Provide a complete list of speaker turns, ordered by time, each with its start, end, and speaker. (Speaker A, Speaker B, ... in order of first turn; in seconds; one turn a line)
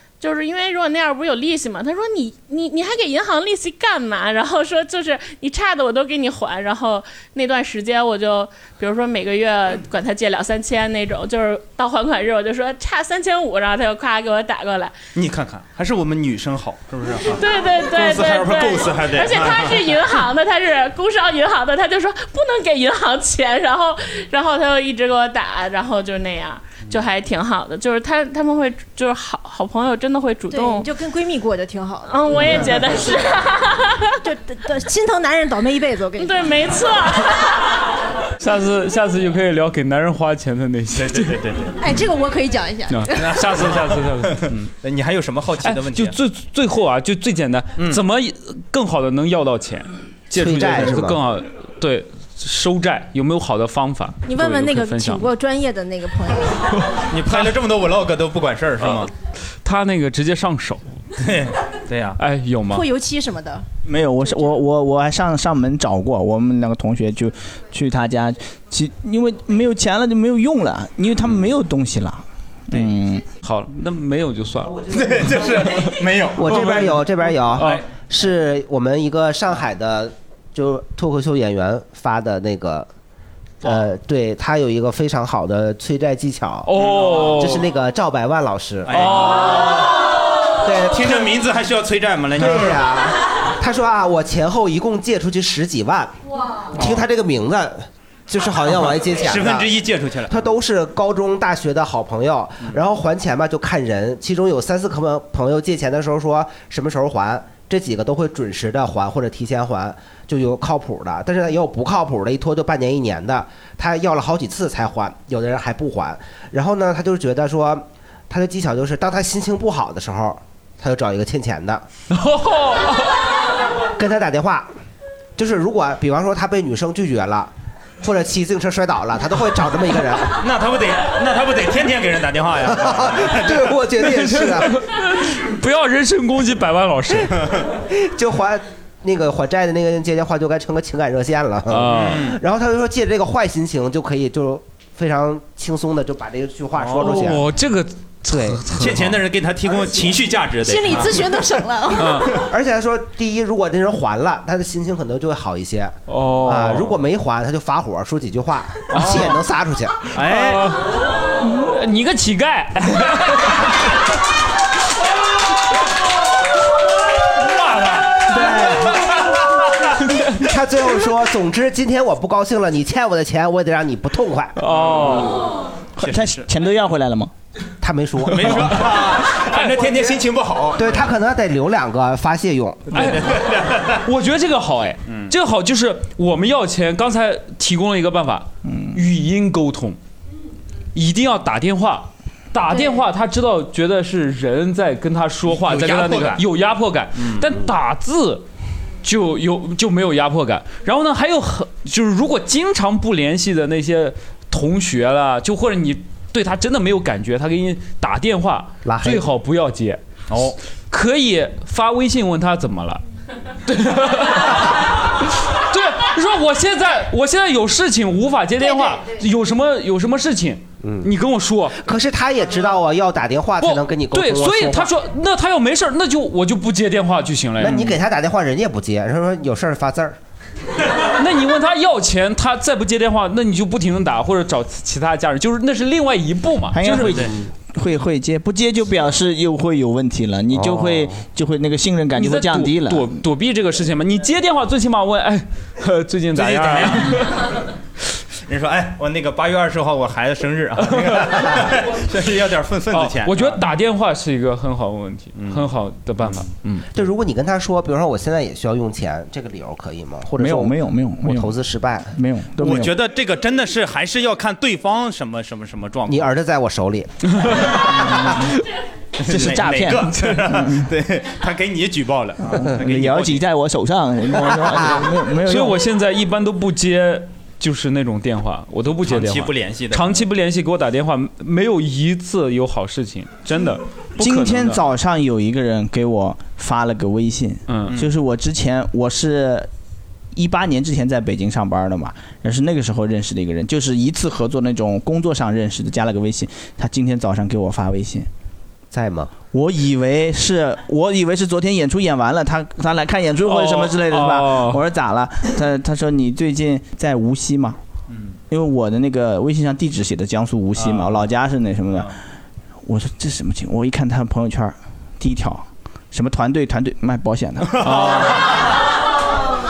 Speaker A: 0.2-14.9
Speaker B: 15.1-20.2
Speaker A: 17.2-30.9
Speaker C: 30.5-33.0
Speaker A: 32.0-34.2
Speaker C: 34.2-36.4
Speaker A: 36.2-37.7
Speaker D: 38.4-41.4
Speaker B: 40.9-41.8
Speaker C: 41.8-43.3
Speaker D: 42.9-44.7
Speaker B: 43.1-46.1
Speaker D: 45.6-55.3
Speaker E: 50.3-51.2
Speaker C: 54.2-56.7
Speaker B: 57.1-59.1
Speaker D: 58.8-59.1
Speaker D: 59.6-60.9
Speaker B: 61.2-62.2
Speaker D: 62.2-62.9
Speaker C: 62.7-63.6
Speaker F: 63.9-73.3
Speaker D: 73.4-74.8
Speaker B: 74.9-77.0
Speaker D: 75.6-75.9
Speaker E: 76.3-82.9
Speaker D: 76.5-76.9
Speaker D: 77.5-77.8
Speaker E: 83.6-89.2
Speaker D: 86.7-87.7
Speaker B: 86.7-87.2
Speaker B: 88.8-89.9
Speaker D: 88.9-89.8
Speaker E: 90.6-91.4
Speaker B: 90.8-92.8
Speaker E: 92.3-96.1
Speaker E: 96.7-99.7
Speaker B: 96.8-97.0
Speaker B: 98.7-100.5
Speaker E: 100.3-121.8
Speaker D: 122.1-123.2
Speaker E: 124.0-124.7
Speaker E: 125.4-127.5
Speaker E: 128.0-130.3
Speaker B: 130.4-133.7
Speaker E: 132.7-134.8
Speaker D: 134.0-137.5
Speaker E: 137.9-147.4
Speaker D: 141.7-142.3
Speaker B: 141.9-142.4
Speaker B: 146.8-147.2
Speaker D: 146.9-149.1
Speaker E: 148.2-148.6
Speaker B: 148.7-151.2
Speaker C: 150.6-152.2
Speaker D: 151.9-152.3
Speaker E: 152.5-160.1
Speaker D: 156.1-156.9
Speaker D: 158.9-159.3
Speaker B: 158.9-159.3
Speaker B: 160.1-160.7
Speaker D: 160.2-160.9
Speaker D: 161.4-163.7
Speaker D: 167.3-168.5
Speaker F: 168.3-168.9
Speaker E: 170.3-174.6
Speaker D: 174.6-175.4
Speaker B: 174.7-175.4
Speaker F: 176.0-177.3
Speaker B: 176.0-176.5
Speaker E: 177.8-178.8
Speaker B: 178.2-181.1
Speaker D: 179.4-180.0
Speaker E: 180.8-183.0
Speaker B: 182.9-184.0
Speaker D: 182.9-190.0
Speaker B: 185.1-185.3
Speaker F: 188.7-188.9
Speaker D: 190.9-198.4
Speaker B: 195.5-196.4
Speaker B: 197.2-197.5
Speaker D: 199.0-210.0
Speaker E: 208.8-209.2
Speaker B: 210.3-210.6
Speaker D: 210.9-213.0
Speaker D: 213.7-221.8
Speaker E: 220.8-221.1
Speaker E: 221.8-224.9
Speaker D: 223.6-227.9
Speaker E: 227.6-230.2
Speaker D: 231.2-237.2
Speaker F: 236.7-243.2
Speaker E: 240.5-241.1
Speaker D: 242.2-247.5
Speaker B: 246.3-247.5
Speaker B: 248.5-253.6
Speaker D: 250.8-251.6
Speaker D: 252.9-256.9
Speaker B: 255.3-256.4
Speaker E: 256.9-262.1
Speaker F: 260.4-261.5
Speaker F: 262.1-262.9
Speaker B: 262.6-266.3
Speaker E: 266.1-267.2
Speaker F: 268.2-268.5
Speaker B: 269.2-273.4
Speaker F: 269.2-270.9
Speaker F: 272.4-275.8
Speaker D: 275.4-284.8
Speaker B: 279.0-280.3
Speaker F: 284.2-289.7
Speaker D: 287.7-288.0
Speaker F: 290.3-298.3
Speaker E: 298.9-299.3
Speaker F: 299.5-307.8
Speaker D: 303.5-304.8
Speaker B: 308.1-308.4
Speaker F: 308.5-312.1
Speaker B: 310.8-311.2
Speaker F: 312.8-317.9
Speaker B: 317.7-318.7
Speaker D: 317.8-318.4